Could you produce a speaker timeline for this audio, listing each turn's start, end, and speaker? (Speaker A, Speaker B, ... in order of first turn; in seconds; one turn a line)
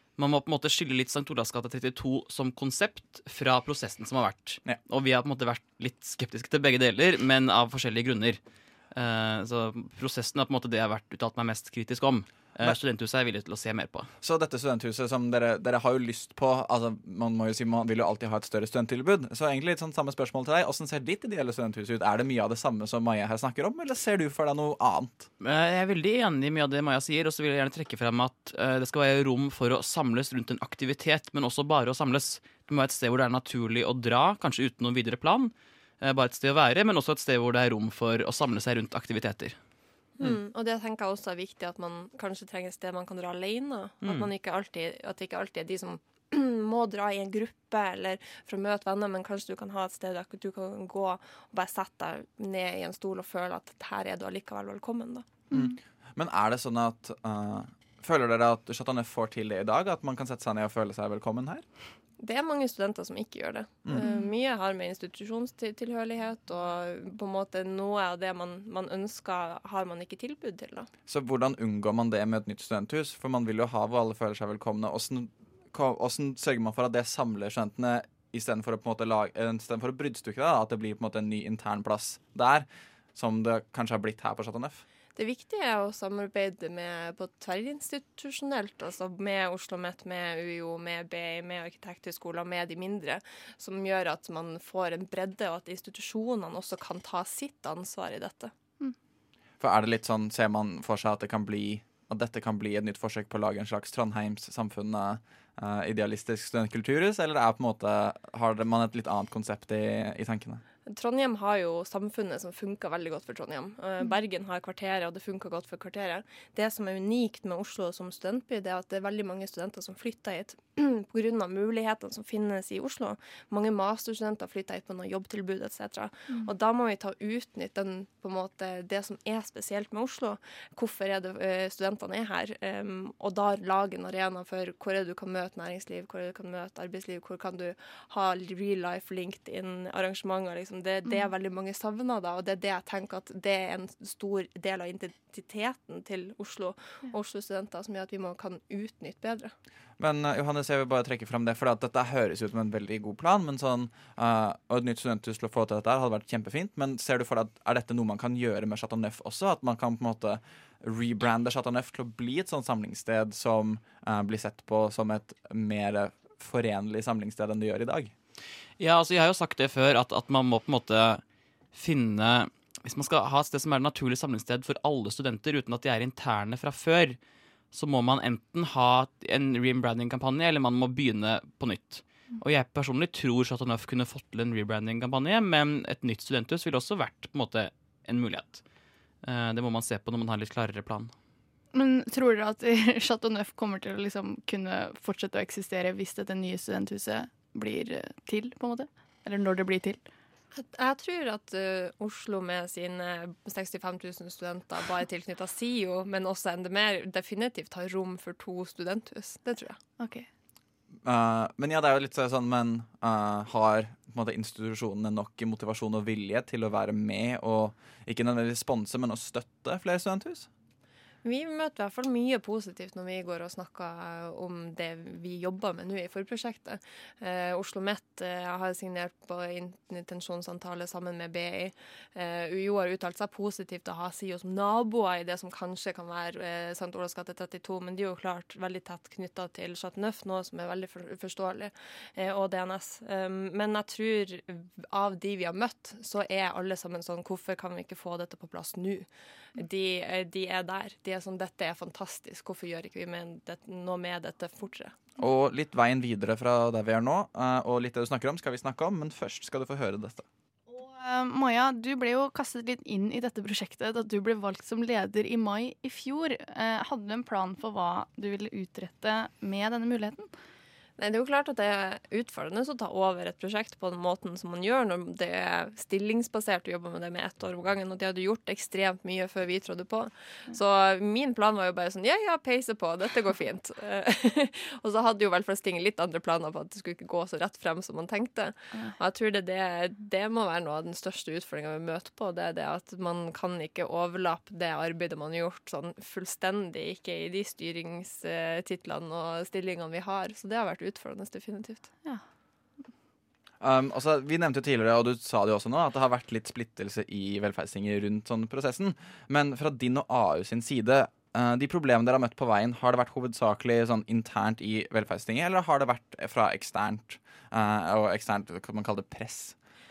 Speaker A: 0.2-8.4
Speaker A: 8.9-14.1
Speaker B: 14.2-25.3
Speaker A: 25.4-39.5
Speaker C: 40.2-55.3
Speaker D: 55.5-55.8
Speaker B: 55.5-61.6
Speaker C: 62.2-70.9
Speaker B: 71.1-84.8
Speaker C: 85.2-98.5
Speaker B: 99.6-110.6
Speaker C: 110.9-149.5
Speaker B: 150.0-168.1
Speaker A: 168.8-171.2
Speaker A: 171.7-177.2
Speaker A: 177.7-188.6
Speaker A: 189.2-191.1
Speaker D: 191.7-200.0
Speaker C: 200.5-209.8
Speaker D: 210.0-210.2
Speaker B: 211.0-220.5
Speaker C: 221.2-249.1
Speaker C: 249.6-254.9
Speaker B: 255.2-260.2
Speaker D: 260.7-270.3
Speaker C: 271.0-301.9
Speaker B: 303.6-319.5